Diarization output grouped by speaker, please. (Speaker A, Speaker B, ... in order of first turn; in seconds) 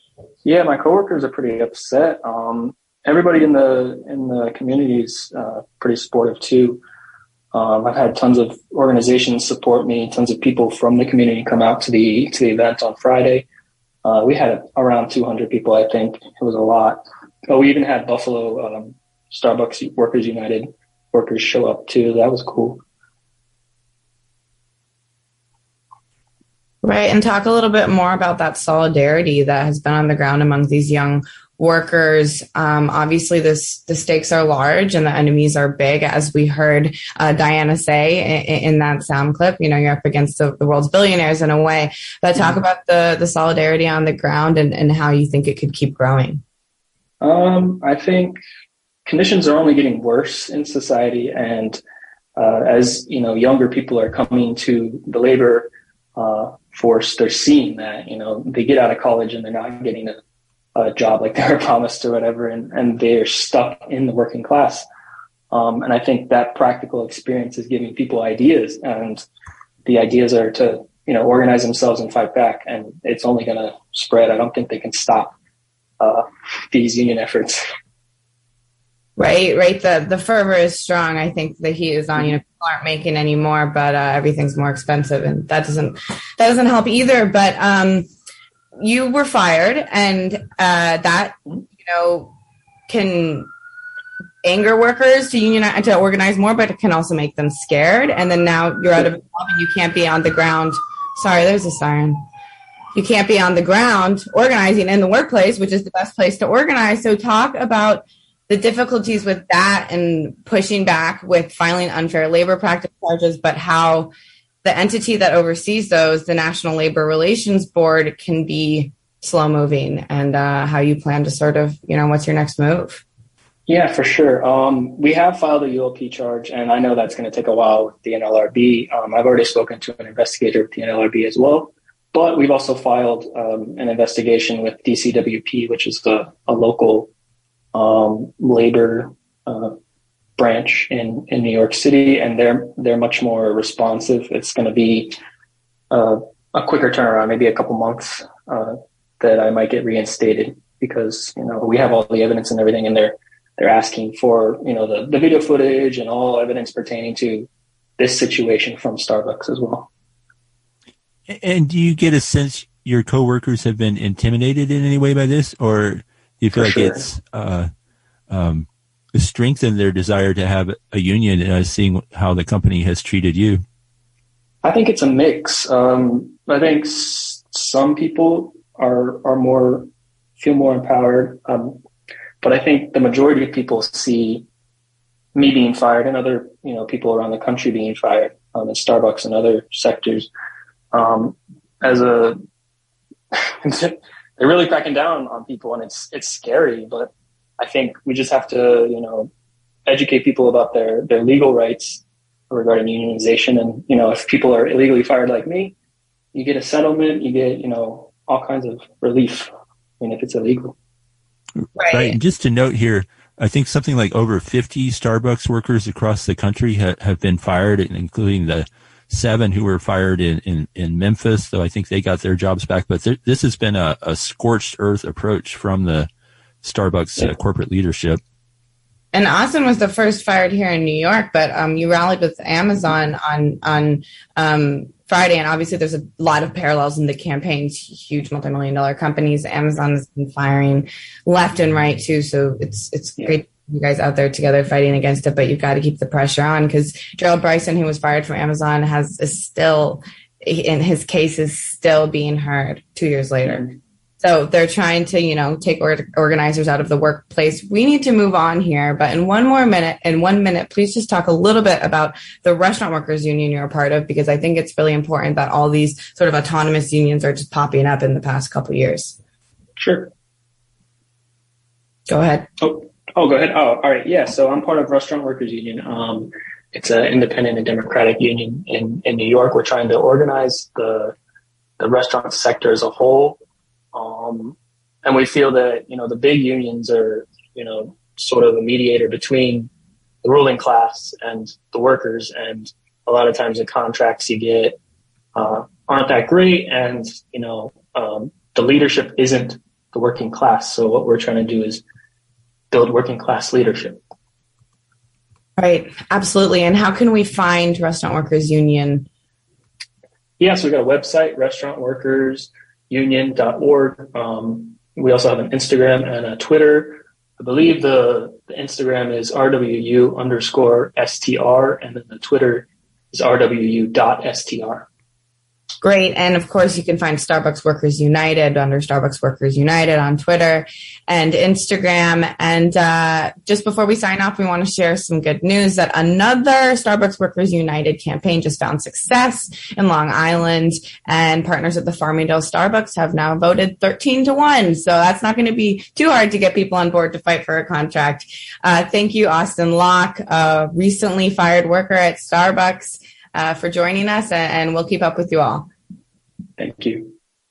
Speaker A: 0.4-6.8, 7.5-13.4, 14.0-22.8, 47.2-48.4, 49.0-51.8, 52.4-60.2, 60.8-64.9, 65.5-69.2, 69.8-75.3, 76.0-77.6, 123.7-137.1, 137.7-139.8, 140.4-145.2, 145.9-159.9, 166.5-167.1, 174.6-181.8, 182.4-184.5, 185.3-190.3, 190.9-192.4, 193.3-199.3, 199.9-205.7, 206.3-210.7, 269.8-270.1, 272.6-281.1, 281.8-283.4, 283.9-289.7, 290.2-294.8, 295.3-301.8, 302.7-304.0, 310.4-324.9, 356.6-357.1
Speaker B: 26.8-46.4, 79.2-88.1, 88.7-92.3, 92.9-93.5, 94.4-102.2, 102.9-114.1, 114.6-123.0, 211.8-212.2, 229.1-253.7, 254.2-269.2, 272.1-272.5, 305.6-309.1, 325.8-355.7
Speaker C: 161.3-167.7, 168.3-173.6, 211.7-226.1, 226.6-228.2